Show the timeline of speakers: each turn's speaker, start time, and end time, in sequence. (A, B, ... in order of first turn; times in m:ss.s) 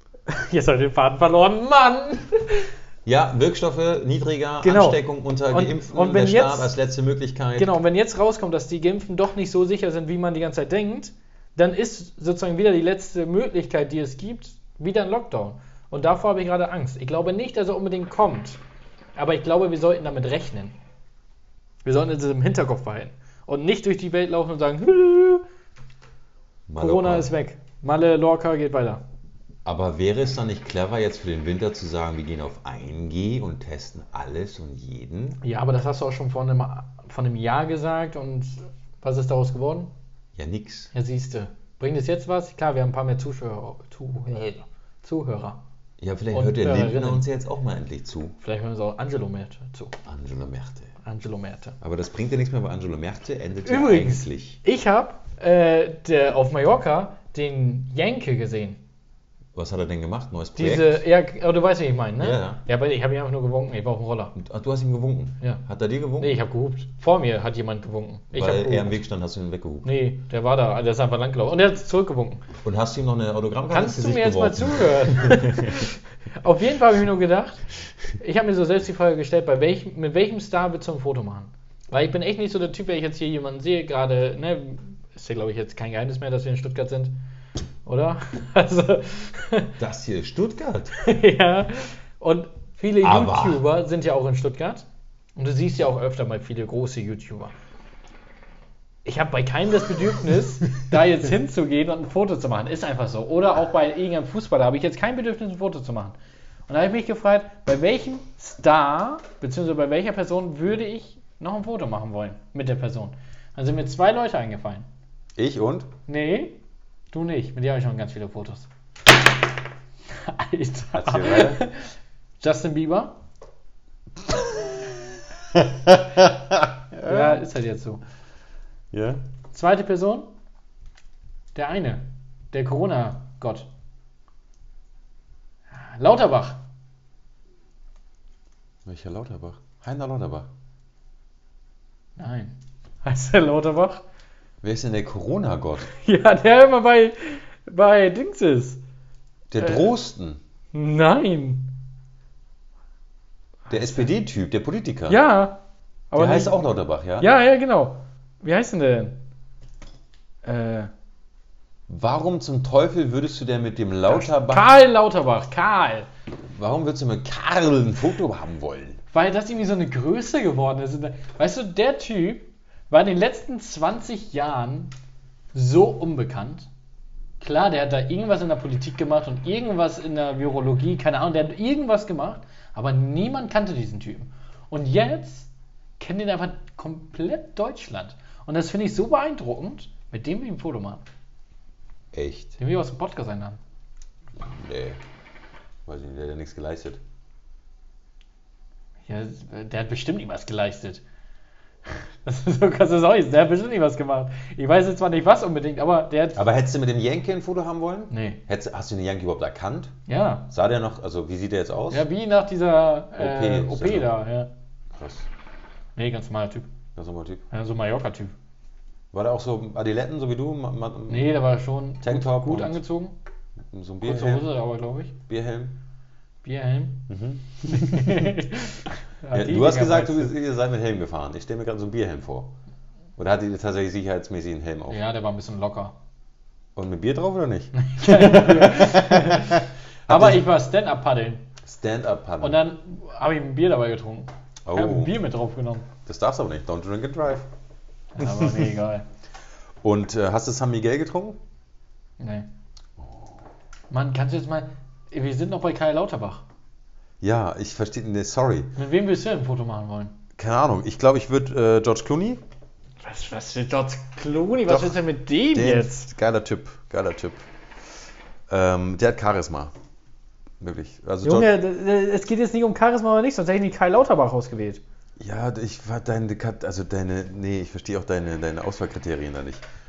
0:00.3-0:02.7 A
0:03.1-0:07.8 B
0:04.6-0:06.7 A
0:07.6-0:18.6 A
0:19.2-0:20.8 A
0:21.8-0:25.4 A
0:26.7-0:27.3 B
0:26.8-0:29.0 A
0:29.6-0:35.4 B
0:35.4-0:39.9 A
0:40.4-0:40.9 B
0:40.9-0:45.6 A
0:46.0-0:48.4 B
0:46.3-0:47.3 A
0:48.4-0:50.0 A
0:50.0-0:50.9 B
0:51.0-0:51.8 A
0:51.8-0:54.6 B
0:53.6-0:58.8 A
0:59.6-1:01.0 B
1:00.6-1:04.4 A
1:02.2-1:02.6 B
1:04.4-1:06.4 B
1:06.2-1:09.0 A
1:08.3-1:09.9 B
1:09.8-1:12.5 A
1:12.6-1:15.7 B
1:13.7-1:27.2 A
1:27.8-1:29.8 A
1:29.8-1:31.0 B
1:31.0-1:37.6 A
1:33.0-1:33.6 B
1:39.0-1:46.2 A
1:46.7-1:54.9 A
1:55.4-1:55.9 B
1:56.1-1:58.7 A
2:00.2-2:01.8 A
2:00.9-2:01.6 B
2:02.4-2:03.2 A
2:04.3-2:04.9 B
2:05.5-2:07.4 B
2:07.0-2:08.0 A
2:08.9-2:09.2 B
2:09.5-2:10.3 A
2:11.6-2:13.7 A
2:15.7-2:16.6 A
2:18.8-2:20.5 B
2:22.2-2:24.0 A
2:24.6-2:25.9 B
2:25.9-2:28.8 A
2:29.5-2:30.4 B
2:29.6-2:29.9 A
2:30.7-2:31.7 A
2:33.7-2:34.1 A
2:33.7-2:35.2 B
2:35.1-2:36.6 A
2:36.2-2:37.3 B
2:37.2-2:39.2 A
2:40.4-2:40.9 A
2:41.9-2:44.7 B
2:44.1-2:46.1 A
2:46.5-2:49.0 B
2:49.1-2:54.9 A
2:55.6-2:56.7 A
2:57.4-3:11.0 A
3:12.1-3:12.6 B
3:12.6-3:13.6 A
3:14.4-3:15.0 B
3:15.9-3:17.0 B
3:19.1-3:21.0 A
3:22.2-3:26.4 A
3:26.4-3:29.9 B
3:28.1-3:28.4 A
3:30.1-3:30.5 A
3:30.5-3:32.0 B
3:31.9-3:34.5 A
3:33.2-3:34.2 B
3:34.9-3:35.3 B
3:36.0-3:36.7 A
3:37.0-3:37.4 B
3:37.5-3:38.3 A
3:39.1-3:41.4 B
3:41.1-3:43.2 A
3:42.0-3:42.8 B
3:43.7-3:44.5 B
3:44.0-3:45.2 A
3:45.3-3:45.8 B
3:46.4-3:47.1 A
3:47.1-3:48.4 B
3:47.6-3:50.3 A
3:49.3-3:52.6 B
3:53.2-3:55.0 B
3:54.9-3:55.9 A
3:56.8-4:00.4 B
3:57.8-4:01.5 A
4:01.6-4:02.6 B
4:02.4-4:05.9 A
4:04.7-4:05.2 B
4:06.1-4:07.5 B
4:08.2-4:09.1 A
4:08.2-4:08.7 B
4:09.8-4:11.4 B
4:12.2-4:12.5 A
4:13.0-4:13.3 B
4:13.9-4:16.4 A
4:17.2-4:18.8 B
4:18.8-4:20.2 A
4:20.4-4:22.4 B
4:23.0-4:26.1 A
4:24.7-4:27.4 B
4:28.5-4:29.7 B
4:30.6-4:31.5 B
4:31.2-4:34.8 A
4:35.2-4:39.6 B